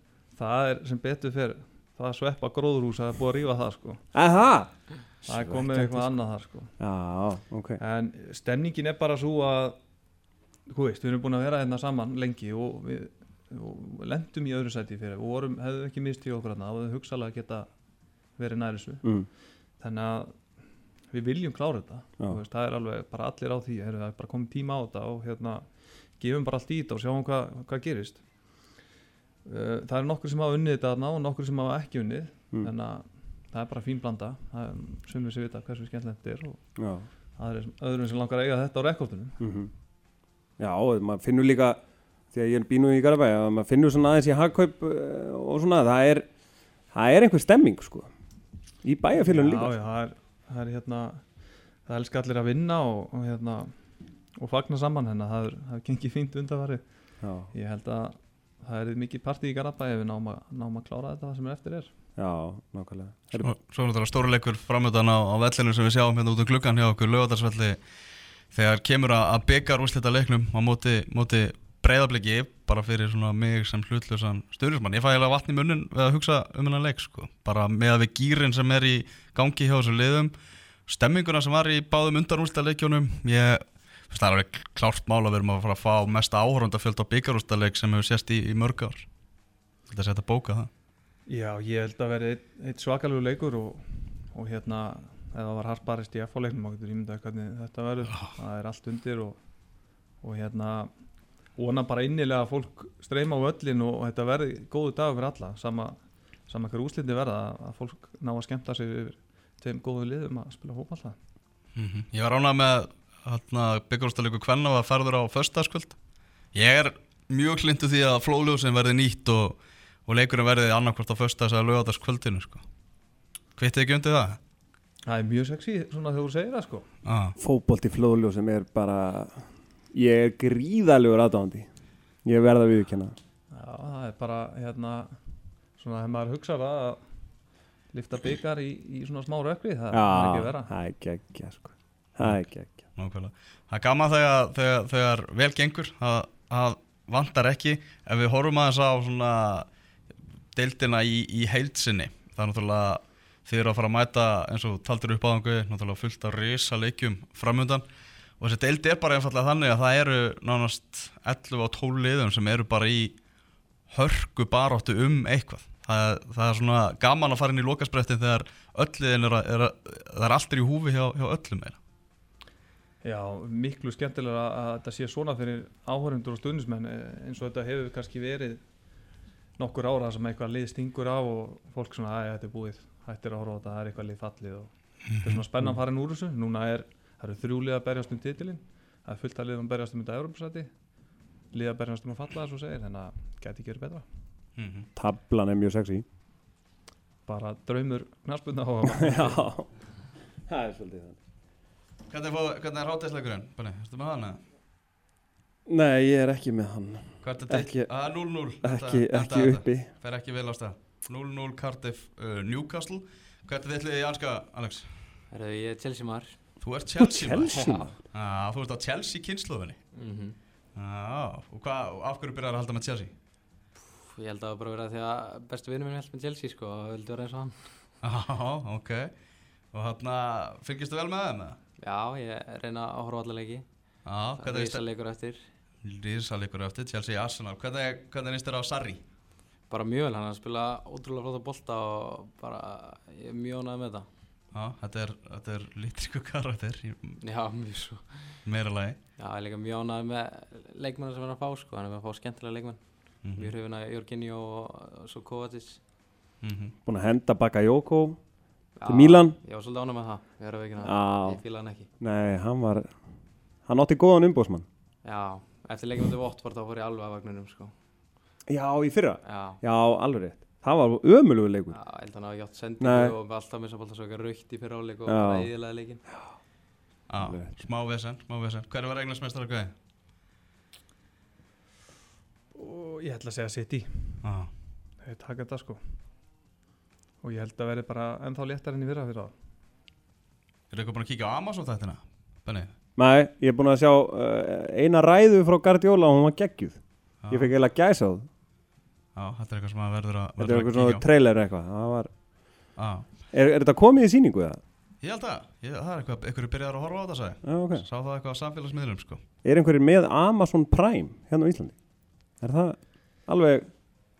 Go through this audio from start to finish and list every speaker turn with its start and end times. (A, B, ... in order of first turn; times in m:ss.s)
0:00.3-0:04.0 A
0:04.1-0:06.2 B
0:05.3-0:06.8 A
0:06.8-0:07.8 B
0:07.8-0:09.8 A
0:10.7-0:17.7 A
0:18.4-0:19.0 A
0:19.0-0:19.3 B
0:19.7-0:20.6 A
0:21.1-0:28.7 A
0:29.4-0:36.7 A
0:36.8-0:37.1 B
0:37.4-0:39.4 A
0:39.4-0:39.7 B
0:40.6-0:46.3 B
0:46.9-0:48.1 B
0:48.8-0:49.8 B
0:49.1-1:01.9 A
0:57.2-0:57.5 B
1:02.2-1:03.5 B
1:03.4-1:07.8 C
1:08.5-1:20.3 C
1:20.9-1:29.1 C
1:29.9-1:30.7 C
1:31.3-1:39.4 A
1:40.2-1:40.9 A
1:41.6-1:51.2 A
1:51.8-1:56.0 C
1:56.5-2:02.6 C
2:03.6-2:04.4 C
2:05.1-2:06.9 A
2:07.0-2:07.4 C
2:07.4-2:11.7 B
2:12.2-2:13.2 B
2:13.5-2:15.2 A
2:15.8-2:17.0 A
2:17.9-2:20.7 A
2:19.9-2:22.8 B
2:22.2-2:29.7 C
2:30.5-2:37.8 C
2:38.4-2:43.2 C
2:43.9-2:51.8 C
2:53.0-2:58.7 A
2:59.6-3:10.7 A
3:11.5-3:14.0 A
3:14.6-3:14.9 C
3:15.0-3:16.0 B
3:17.3-3:19.4 A
3:18.9-3:19.7 B
3:20.4-3:21.2 B
3:22.1-3:24.4 C
3:25.7-3:27.9 B
3:27.2-3:35.0 C
3:28.6-3:29.9 B
3:35.3-3:36.4 D
3:36.6-3:39.8 C
3:37.0-3:38.0 B
3:37.6-3:37.8 D
3:40.0-3:40.4 D
3:40.8-3:43.1 C
3:43.9-3:47.8 D
3:48.0-3:49.1 C
3:49.7-3:51.6 C
3:51.8-3:53.6 D
3:54.0-3:54.8 C
3:54.4-3:55.4 D
3:55.8-3:59.0 C
3:59.7-4:04.1 D
4:04.5-4:07.2 C
4:07.2-4:08.4 D
4:08.4-4:09.0 C
4:09.2-4:15.8 D
4:13.2-4:13.5 C
4:16.4-4:16.7 C
4:16.8-4:18.3 B
4:18.8-4:21.9 D
4:18.9-4:19.4 B
4:20.8-4:21.4 B
4:22.0-4:23.0 B
4:23.6-4:24.7 B
4:25.0-4:27.7 D
4:28.5-4:31.8 B
4:29.2-4:29.6 D
4:31.7-4:36.0 D
4:32.8-4:33.2 B
4:35.1-4:35.5 B
4:36.1-4:36.4 B
4:37.1-4:39.7 C
4:37.2-4:37.6 B
4:42.5-4:44.2 A
4:44.2-4:44.5 C
4:45.0-4:46.0 A
4:47.2-4:49.3 A
4:50.7-4:52.7 C
4:53.0-4:58.3 B
4:57.2-4:57.5 C
4:59.2-5:01.0 C
5:00.4-5:02.1 B
5:02.8-5:03.1 C
5:03.3-5:04.6 B
5:05.0-5:09.2 C
5:07.4-5:07.9 B
5:09.4-5:11.8 B
5:12.4-5:13.7 B